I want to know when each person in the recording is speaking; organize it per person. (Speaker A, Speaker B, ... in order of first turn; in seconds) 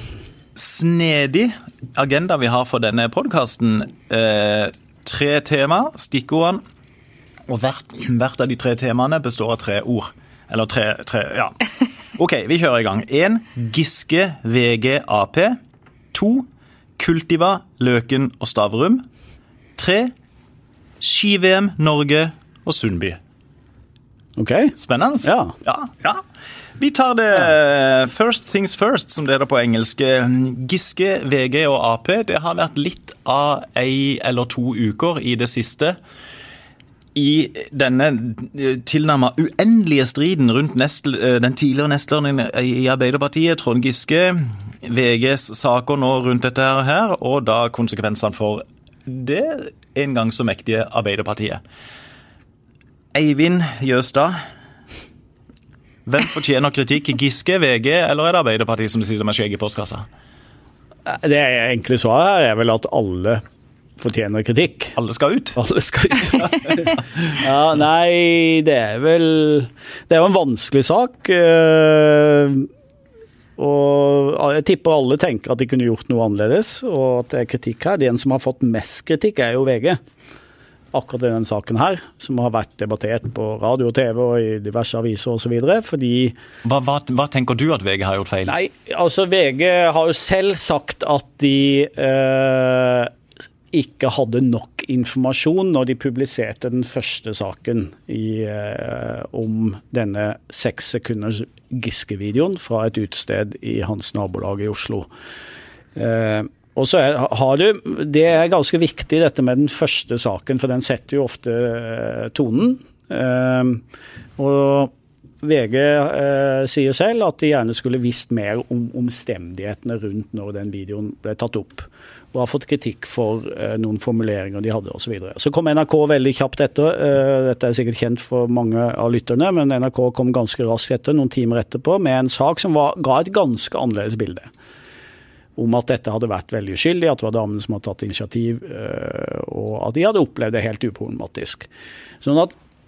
Speaker A: 0.5-6.6, 7.5-11.5, 12.1-15.6, 16.1-19.0, 19.8-20.1, 21.0-23.2, 24.8-26.2, 26.8-36.0, 37.1-51.6, 53.1-54.4, 56.0-60.1, 65.0-65.6, 66.4-66.8, 86.6-88.5
Speaker B: 24.4-25.5, 61.0-63.4, 64.0-64.9, 65.5-72.7, 73.6-80.0, 80.9-86.3, 88.5-93.1, 93.7-105.1, 106.0-113.8, 114.4-114.9, 115.4-134.5, 135.6-141.7, 142.2-142.5